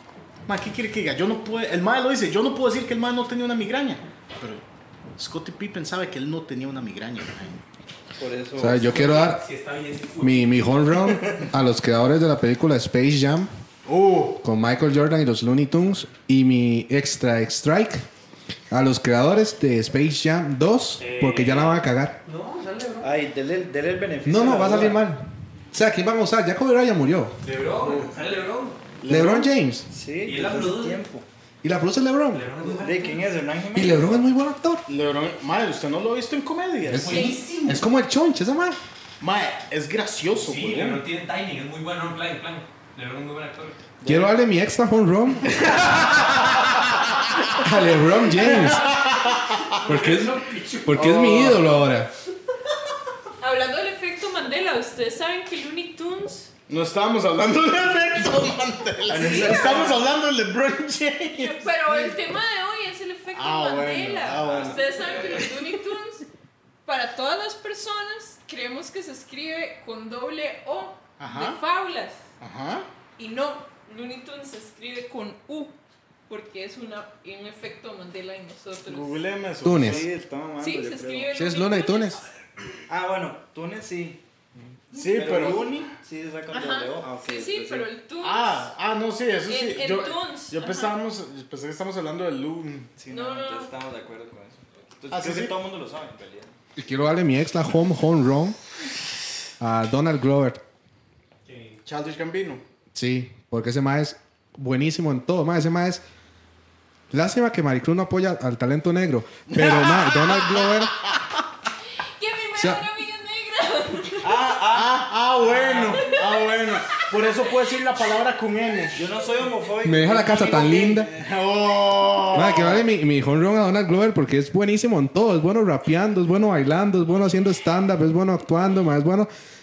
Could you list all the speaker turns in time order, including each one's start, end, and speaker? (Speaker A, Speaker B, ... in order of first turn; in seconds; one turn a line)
Speaker A: 0.5-4.6
Speaker A: 5.2-7.6
Speaker B: 8.2-9.1
Speaker C: 8.6-9.4
Speaker D: 8.9-10.7
Speaker C: 10.2-13.5
Speaker A: 13.8-14.4
Speaker C: 14.4-18.1
Speaker C: 18.7-22.2
Speaker D: 21.0-23.1
Speaker B: 23.0-25.0
Speaker C: 24.2-27.4
Speaker D: 27.4-28.8
Speaker A: 27.8-28.1
Speaker A: 29.0-29.5
Speaker C: 29.1-29.9
Speaker B: 29.9-31.3
Speaker D: 30.2-31.0
Speaker C: 31.6-32.5
Speaker D: 32.3-33.2
Speaker B: 32.6-34.3
Speaker C: 33.7-34.9
Speaker A: 34.9-37.3
Speaker C: 36.9-38.8
Speaker D: 36.9-37.8
Speaker E: 37.1-37.5
Speaker A: 39.2-41.0
Speaker D: 40.3-43.9
Speaker B: 44.0-44.3
Speaker C: 44.0-46.7
Speaker C: 47.5-48.9
Speaker A: 48.3-49.8
Speaker D: 49.7-51.0
Speaker C: 49.8-52.1
Speaker A: 50.9-51.7
Speaker E: 53.4-56.5
Speaker A: 56.7-62.1
Speaker B: 59.1-60.0
Speaker E: 59.1-60.0
Speaker E: 61.3-66.2
Speaker A: 63.4-65.8
Speaker B: 64.4-65.5
Speaker E: 66.8-72.2
Speaker A: 71.2-71.6
Speaker A: 72.4-72.9
Speaker E: 73.2-75.7
Speaker E: 76.3-79.2
Speaker A: 78.9-80.1
Speaker C: 79.6-80.0
Speaker B: 79.7-81.3
Speaker E: 80.6-82.2
Speaker C: 81.3-82.2
Speaker B: 82.9-84.2
Speaker A: 84.9-85.9
Speaker B: 84.9-87.9
Speaker E: 86.5-88.7
Speaker A: 88.2-92.9
Speaker E: 89.5-91.0
Speaker B: 93.0-96.5
Speaker E: 93.1-93.7
Speaker A: 95.1-95.5
Speaker C: 96.8-98.6
Speaker C: 99.6-100.6
Speaker D: 101.5-101.8
Speaker A: 101.8-102.6
Speaker C: 102.9-106.0
Speaker C: 107.1-110.9
Speaker A: 109.5-110.9
Speaker E: 112.2-114.5
Speaker C: 112.6-112.8
Speaker B: 114.2-116.1
Speaker A: 114.7-119.0
Speaker E: 115.9-117.7
Speaker B: 118.9-121.0
Speaker C: 119.8-121.1
Speaker A: 120.3-122.9
Speaker C: 122.3-129.3